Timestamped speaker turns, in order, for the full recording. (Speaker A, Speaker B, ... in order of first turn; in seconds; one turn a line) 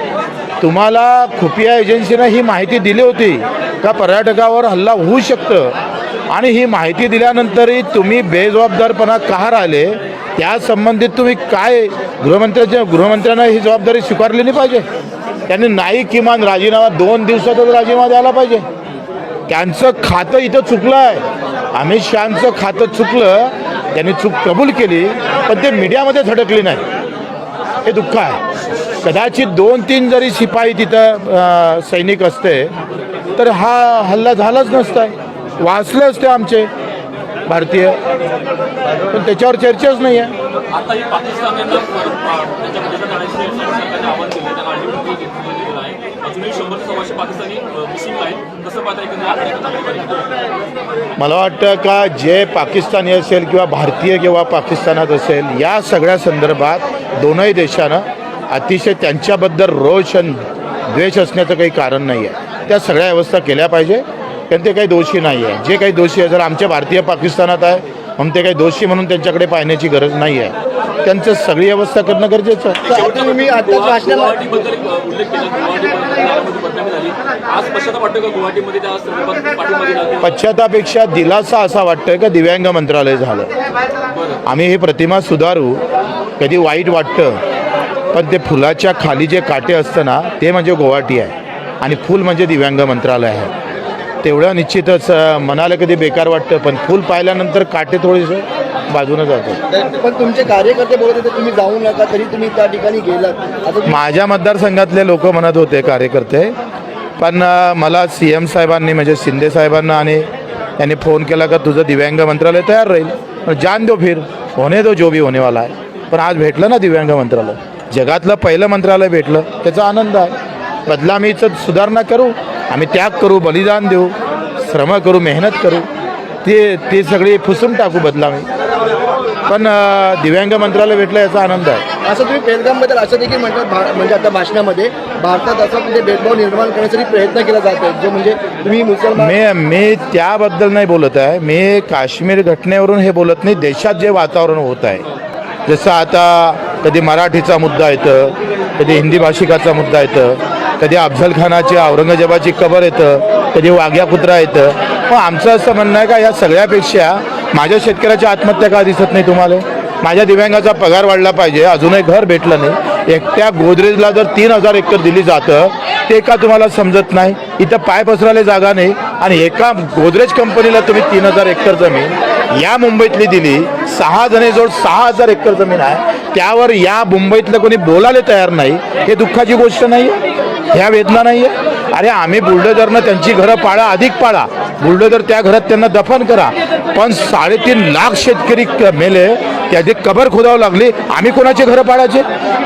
Speaker A: 0.6-5.8
Speaker A: 6.3-14.8
Speaker A: 15.5-18.7
Speaker A: 19.5-26.9
Speaker A: 27.8-28.4
Speaker A: 29.0-32.7
Speaker A: 33.4-36.7
Speaker A: 37.5-38.0
Speaker A: 39.1-40.3
Speaker B: 40.7-50.3
Speaker A: 51.2-72.9
Speaker C: 72.8-74.6
Speaker B: 72.8-80.3
Speaker A: 80.2-83.5
Speaker A: 84.4-85.8
Speaker A: 86.4-87.4
Speaker A: 88.1-93.5
Speaker A: 94.2-99.6
Speaker C: 99.7-104.0
Speaker A: 103.8-106.5
Speaker A: 107.2-120.3
Speaker A: 120.8-125.9
Speaker A: 126.4-128.5
Speaker A: 129.5-131.8
Speaker C: 132.0-139.3
Speaker A: 139.2-145.1
Speaker A: 145.7-180.2
Speaker A: 180.7-192.2